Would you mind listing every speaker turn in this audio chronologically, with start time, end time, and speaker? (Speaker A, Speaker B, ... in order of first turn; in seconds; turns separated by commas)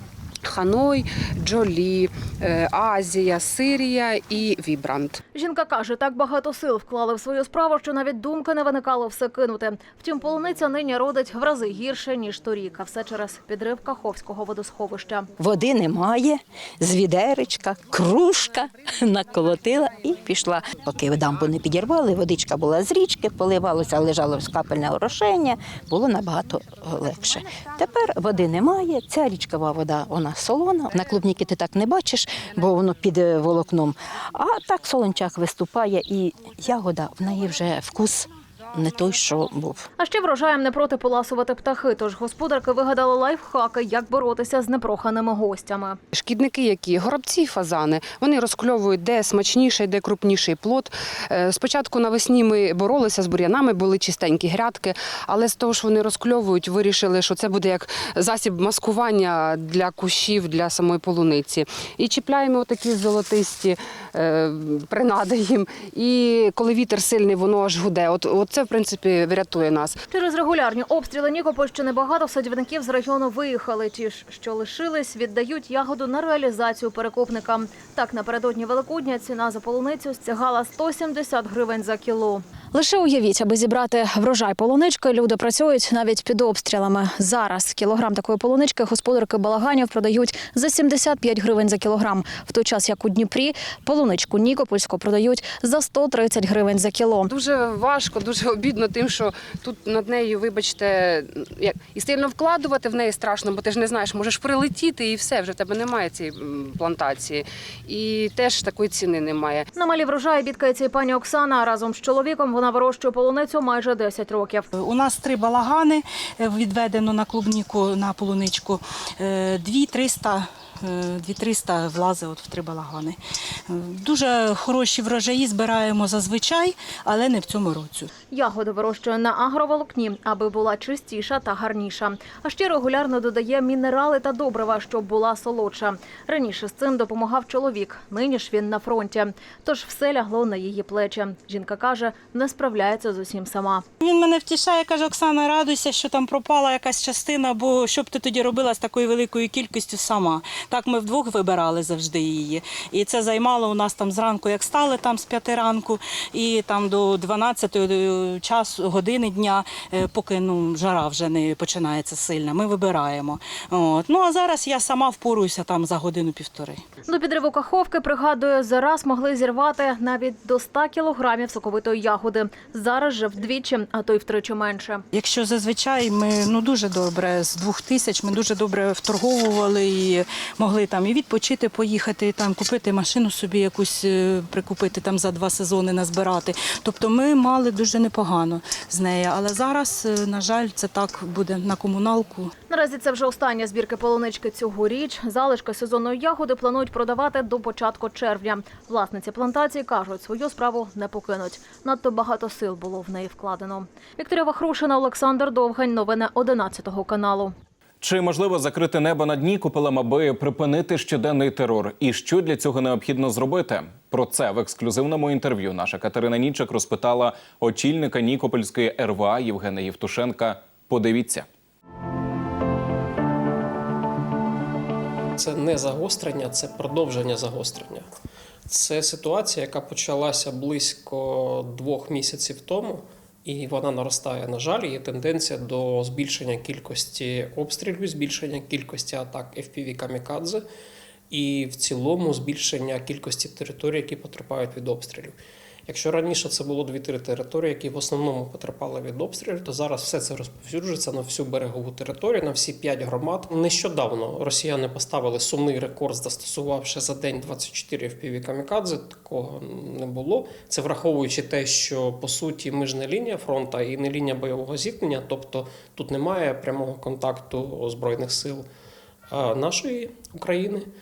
Speaker A: 0.4-5.2, Speaker B: 5.3-15.3, Speaker C: 15.4-39.9, Speaker B: 40.0-46.0, Speaker A: 46.1-70.0, Speaker B: 70.1-82.4, Speaker D: 82.7-97.3, Speaker A: 97.3-109.7, Speaker B: 109.8-114.7, Speaker E: 114.8-123.2, Speaker E: 123.7-128.1, Speaker B: 128.3-143.8, Speaker E: 144.0-166.8, Speaker B: 167.1-175.0, Speaker E: 175.1-192.5, Speaker B: 192.7-207.5, Speaker F: 208.0-221.5, Speaker G: 225.4-228.1, Speaker G: 228.7-240.6, Speaker G: 241.3-268.7, Speaker G: 269.3-270.9